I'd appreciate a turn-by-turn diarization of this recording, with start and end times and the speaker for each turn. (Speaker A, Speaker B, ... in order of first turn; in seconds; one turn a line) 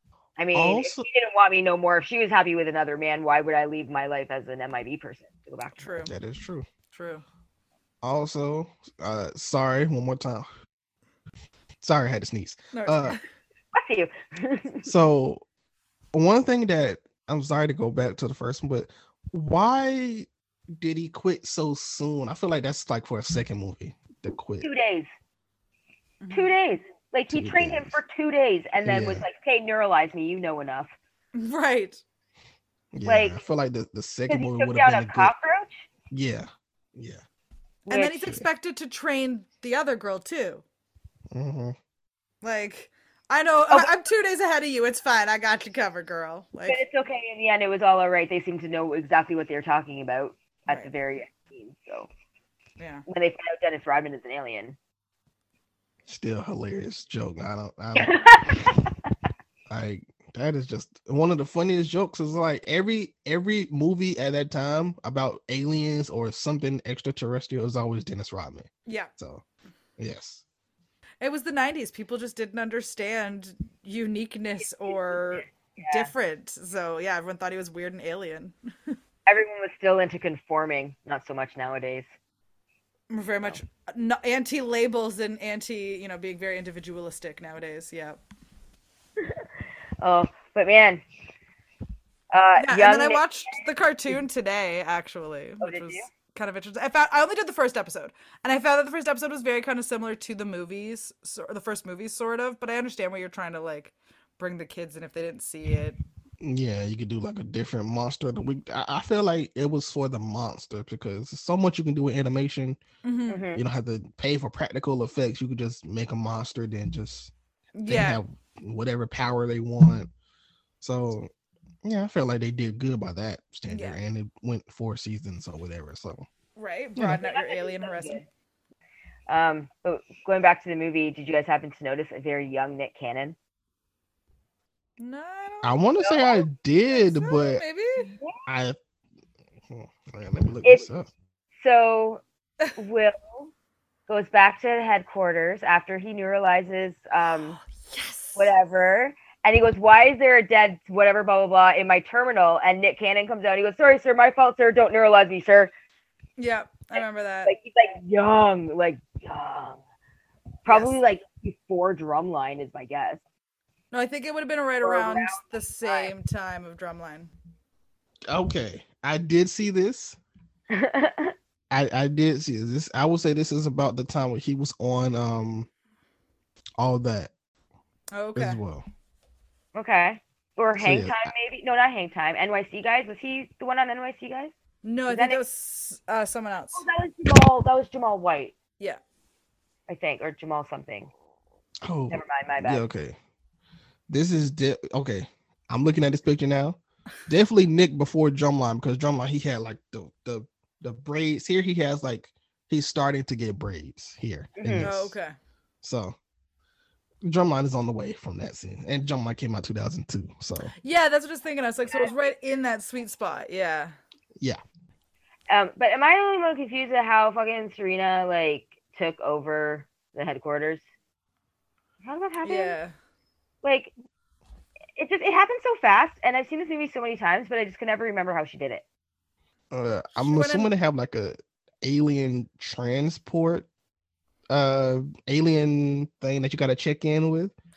Speaker A: 0.4-5.9
Speaker B: 0.5-1.1
Speaker C: 5.8-6.1
Speaker B: 6.0-6.7
Speaker C: 6.9-7.2
Speaker B: 8.0-10.5
Speaker B: 11.8-13.2
Speaker C: 12.7-13.2
Speaker A: 13.7-14.9
Speaker B: 14.8-15.4
Speaker B: 16.1-24.7
Speaker A: 24.6-25.1
Speaker C: 26.2-26.5
Speaker A: 26.3-30.9
Speaker B: 27.3-28.0
Speaker B: 28.9-29.2
Speaker C: 31.4-32.0
Speaker B: 32.9-35.3
Speaker A: 33.0-33.4
Speaker A: 34.3-35.9
Speaker B: 36.1-37.2
Speaker A: 37.9-38.4
Speaker C: 37.9-40.6
Speaker B: 41.3-41.8
Speaker C: 42.4-46.8
Speaker A: 46.7-52.1
Speaker C: 52.8-53.0
Speaker A: 53.1-54.8
Speaker B: 56.1-58.2
Speaker A: 58.0-58.9
Speaker B: 59.7-69.4
Speaker C: 68.9-69.1
Speaker B: 70.0-70.4
Speaker C: 71.2-78.9
Speaker A: 74.9-76.1
Speaker A: 79.3-82.1
Speaker C: 83.1-88.2
Speaker A: 89.2-89.5
Speaker A: 90.0-91.0
Speaker A: 92.3-94.2
Speaker C: 92.6-106.0
Speaker A: 95.6-96.1
Speaker B: 106.4-112.8
Speaker C: 113.0-113.4
Speaker A: 113.3-113.6
Speaker B: 113.5-117.3
Speaker C: 117.8-118.2
Speaker B: 117.9-120.1
Speaker B: 120.8-121.3
Speaker B: 121.8-126.3
Speaker C: 123.7-124.0
Speaker C: 126.6-128.2
Speaker B: 127.0-127.2
Speaker A: 127.2-128.2
Speaker A: 129.3-133.4
Speaker C: 135.0-136.3
Speaker B: 135.6-137.6
Speaker C: 136.9-138.1
Speaker A: 138.1-138.4
Speaker B: 138.5-138.8
Speaker B: 139.7-141.1
Speaker A: 141.6-142.2
Speaker A: 142.8-143.5
Speaker A: 144.1-147.6
Speaker C: 147.6-148.5
Speaker A: 148.4-155.7
Speaker C: 156.4-157.5
Speaker A: 157.0-159.8
Speaker A: 160.7-163.2
Speaker C: 160.7-160.9
Speaker C: 163.9-167.3
Speaker A: 164.8-166.1
Speaker B: 168.3-170.2
Speaker A: 170.7-171.3
Speaker B: 171.7-175.7
Speaker B: 176.8-177.3
Speaker C: 178.1-178.6
Speaker B: 178.3-178.9
Speaker A: 179.7-184.5
Speaker B: 180.8-181.3
Speaker C: 184.8-186.8
Speaker A: 185.1-185.4
Speaker A: 186.8-188.6
Speaker A: 189.9-191.1
Speaker B: 191.8-193.2
Speaker A: 192.1-192.8
Speaker B: 194.1-205.2
Speaker A: 204.6-204.9
Speaker C: 204.8-205.3
Speaker B: 205.8-206.2
Speaker B: 207.2-210.7
Speaker C: 210.8-213.9
Speaker A: 215.5-220.8
Speaker A: 222.0-222.8
Speaker C: 222.4-222.9
Speaker A: 223.6-223.9
Speaker A: 225.0-228.8
Speaker B: 229.7-233.7
Speaker C: 230.2-230.7
Speaker B: 234.5-237.5